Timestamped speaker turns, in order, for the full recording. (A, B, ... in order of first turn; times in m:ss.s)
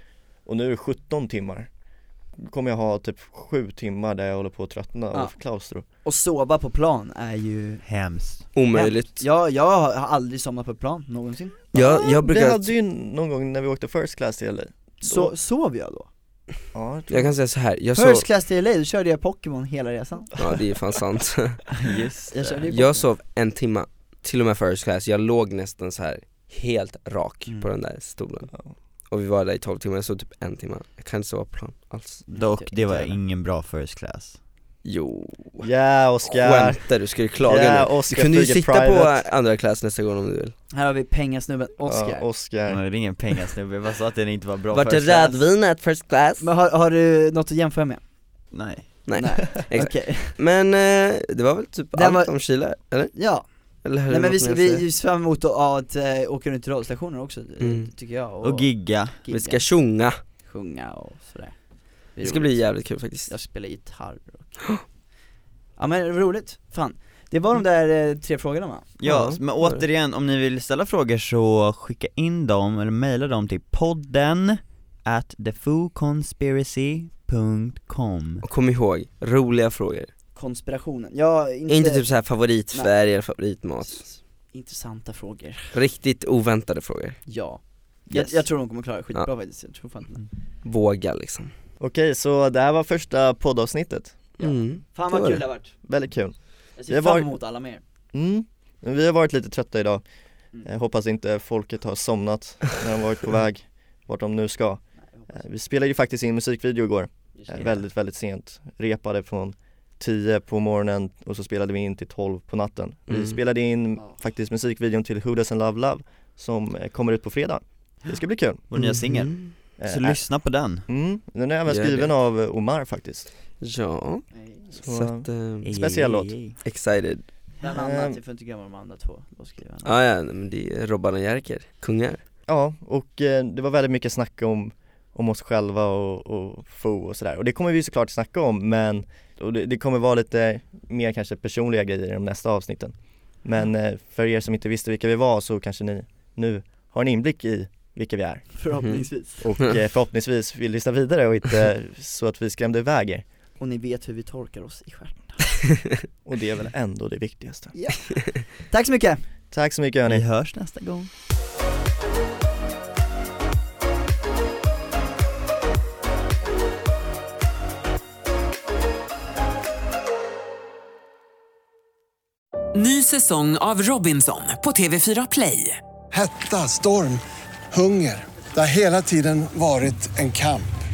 0:00.4-0:01.7 A
0:02.4-0:05.8 A
0:06.0-0:07.8 B
0:07.8-0:08.4 C
0:08.6-0:09.2 D
0:08.7-0:11.7 B
0:11.7-0:12.7 D
0:11.7-0:15.3 A
0:15.0-0:16.1 B
0:16.7-0:17.3 A
0:17.1-0:18.2 D
0:17.9-0:20.3 B
0:20.4-0:21.6 D
0:21.7-0:22.6 C
0:22.3-0:23.1 B
0:22.7-0:28.5 D
0:27.4-0:27.7 B
0:29.1-0:32.2 D
0:32.3-0:33.2 B
0:32.3-0:34.4 C
0:34.8-0:35.7 D
0:35.6-0:36.8 A
0:36.3-0:40.5 D
0:37.4-0:39.2 A
0:40.7-0:42.2 B
0:41.8-0:42.8 A
0:42.7-0:45.4 C
0:44.7-0:46.4 D
0:46.4-0:48.0 B
0:48.5-0:49.0 C
0:49.0-0:53.2 D
0:49.1-0:50.4 B
0:51.9-0:52.3 B
0:53.1-0:53.4 B
0:53.8-0:54.8 D
0:54.1-0:59.6 B
0:57.6-0:57.9 D
0:58.4-0:59.2 C
0:59.3-1:00.2 D
1:00.4-1:01.6 B
1:02.1-1:02.7 B
1:02.2-1:03.3 D
1:03.3-1:04.5 B
1:05.8-1:08.9 B
1:09.0-1:18.4 C
1:09.0-1:09.8 D
1:18.4-1:20.1 D
1:20.3-1:22.1 B
1:21.7-1:24.1 D
1:23.9-1:25.8 B
1:25.7-1:27.2 D
1:27.3-1:30.3 B
1:28.1-1:28.4 D
1:30.6-1:31.5 D
1:31.8-1:34.2 A
1:34.4-1:35.7 B
1:34.4-1:35.4 D
1:35.8-1:36.3 A
1:36.8-1:37.8 B
1:36.9-1:37.3 A
1:38.1-1:40.0 A
1:40.6-1:58.6 A
1:47.4-1:47.8 B
1:53.1-1:53.3 D
1:58.7-2:00.8 C
1:58.8-1:59.5 D
1:59.8-2:00.2 A
2:00.9-2:03.3 A
2:01.7-2:02.1 D
2:03.6-2:04.2 D
2:04.3-2:04.7 B
2:04.7-2:06.3 A
2:04.8-2:05.7 D
2:05.6-2:06.6 C
2:06.6-2:07.2 D
2:07.6-2:09.9 B
2:07.7-2:08.2 A
2:09.8-2:12.2 D
2:12.5-2:28.5 A
2:28.6-2:29.5 B
2:29.4-2:33.2 A
2:33.6-2:35.4 B
2:36.2-2:37.7 A
2:37.7-2:39.2 B
2:39.5-2:40.2 A
2:40.1-2:41.1 C
2:52.7-2:55.8 E
2:56.1-3:00.7 F